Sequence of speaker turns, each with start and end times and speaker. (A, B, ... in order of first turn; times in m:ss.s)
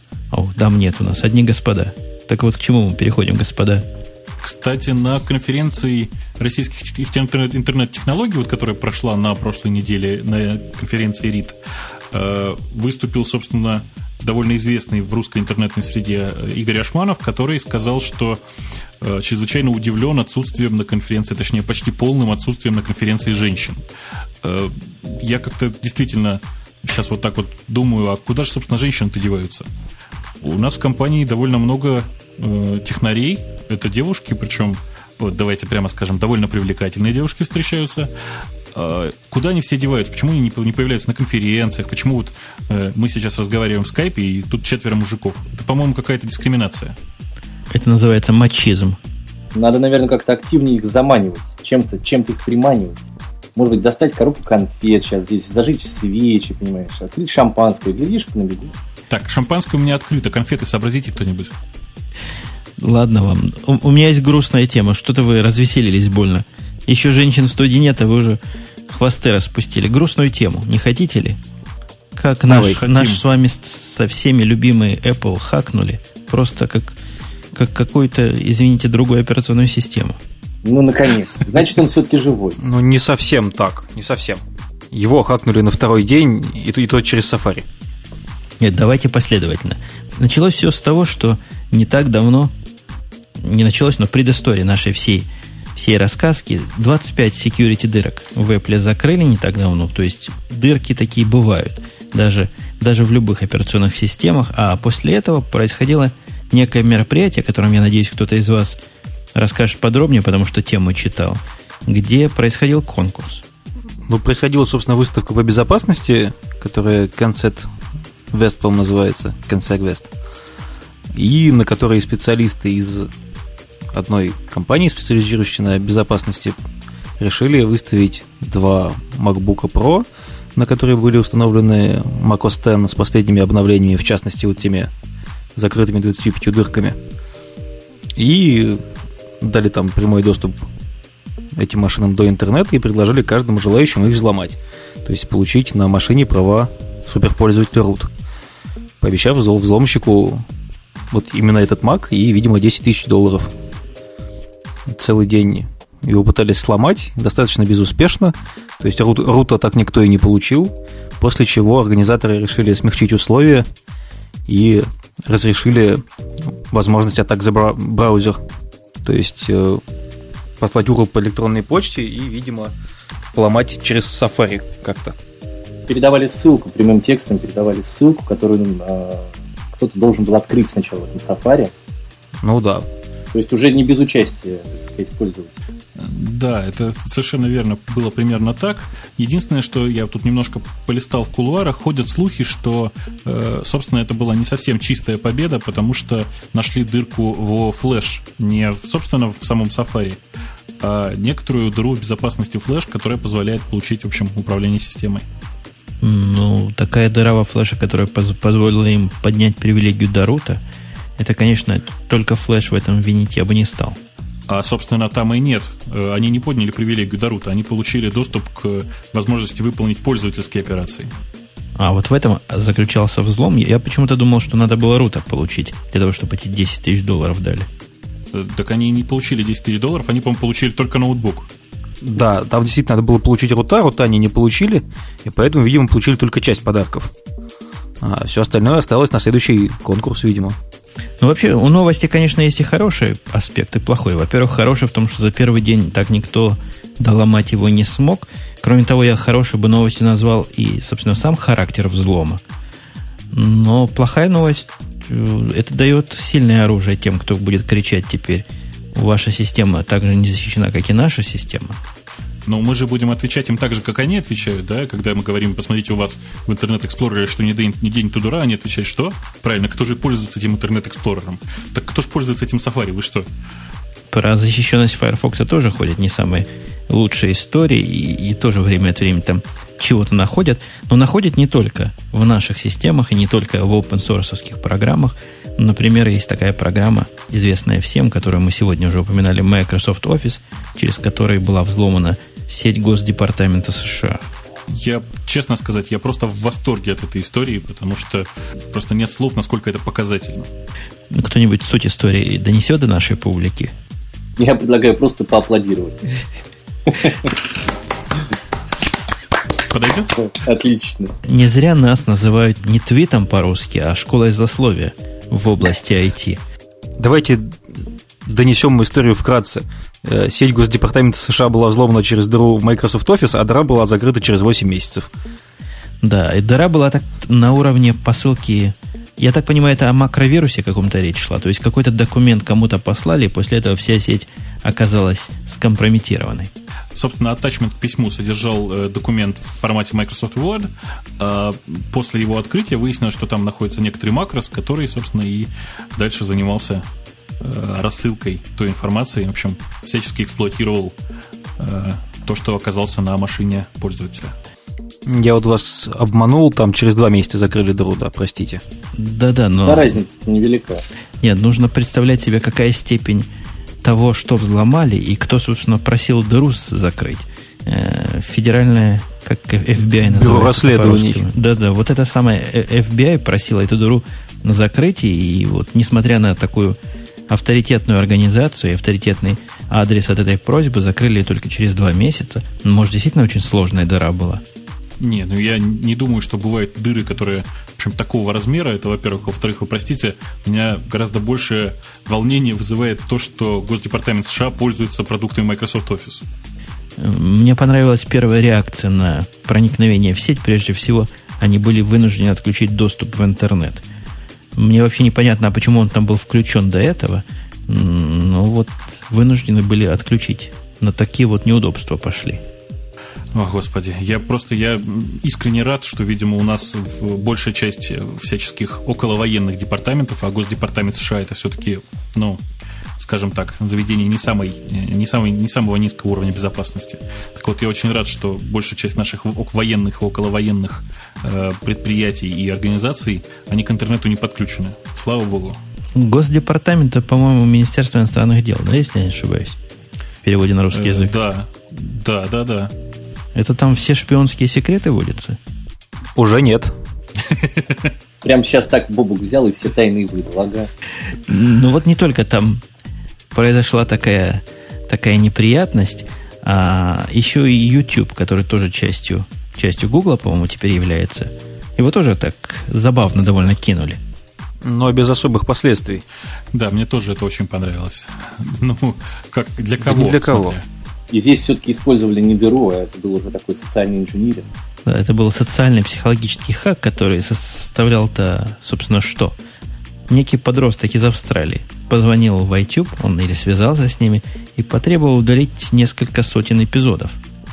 0:00.3-0:03.9 A
0:04.4-0:11.6 B
0:12.1-0:18.4 B
0:19.0-0:23.8 B
0:24.4-0:29.7 B
0:30.4-0:38.1 B
0:38.7-0:47.0 B
0:47.7-0:49.0 A
0:49.6-0:53.0 C
0:53.6-0:58.7 C
0:59.1-1:01.5 B
1:02.8-1:11.4 A
1:12.2-1:17.0 A
1:12.5-1:13.2 B
1:17.5-1:20.2 A
1:20.6-1:22.6 C
1:22.6-1:24.4 D
1:24.9-1:27.7 D
1:28.6-1:32.5 A
1:33.4-1:48.8 A
1:49.4-1:53.4 A
1:54.1-1:57.7 D
1:58.3-2:00.1 D
2:01.1-2:03.1 D
2:03.9-2:06.6 D
2:07.2-2:10.0 D
2:10.6-2:14.9 D
2:15.6-2:17.0 D
2:18.2-2:18.8 D
2:19.4-2:20.6 D
2:21.6-2:28.1 D
2:29.0-2:30.4 D
2:31.1-2:33.5 D
2:34.9-2:43.7 D
2:44.5-2:46.0 D
2:46.7-2:48.4 D
2:49.0-2:49.8 D
2:50.6-2:52.7 D
2:53.3-2:55.2 D
2:55.9-3:01.7 C
3:02.4-3:02.9 D
3:03.3-3:05.6 C
3:06.0-3:20.2 B
3:20.8-3:25.2 B
3:26.0-3:30.6 A
3:31.2-3:34.0 A
3:34.5-3:41.1 B
3:41.8-3:47.7 A
3:48.3-3:51.5 B
3:52.0-3:57.1 D
3:58.0-4:00.6 D
4:01.2-4:12.4 A
4:13.3-4:21.8 A
4:22.5-4:33.3 B
4:34.1-4:54.2 A
4:54.7-5:00.5 B
5:01.1-5:03.7 A
5:04.4-5:06.1 C
5:06.9-5:07.3 C
5:09.7-5:10.2 B
5:10.2-5:11.1 C
5:11.2-5:16.4 A
5:17.0-5:25.1 D
5:26.0-5:36.5 A
5:37.0-5:46.8 B
5:47.4-5:51.0 B
5:51.6-5:54.4 B
5:55.1-5:58.6 D
5:58.9-6:00.0 A
5:59.6-6:00.8 C
6:01.2-6:03.3 A
6:03.8-6:16.8 A
6:10.0-6:11.2 D
6:17.3-6:24.4 A
6:25.0-6:36.2 B
6:37.0-6:43.8 A
6:44.6-6:52.4 A
6:53.3-7:02.4 B
7:03.0-7:15.6 B
7:16.0-7:19.6 A
7:20.2-7:21.1 A
7:20.7-7:22.7 B
7:23.4-7:25.4 A
7:26.2-7:26.7 D
7:27.2-7:27.9 B
7:28.2-7:30.7 C
7:31.3-7:32.6 A
7:33.3-7:44.0 A
7:44.6-7:46.0 D
7:46.5-7:50.6 B
7:49.8-7:50.6 D
7:51.1-7:54.5 C
7:54.9-7:59.4 A
8:00.1-8:07.2 A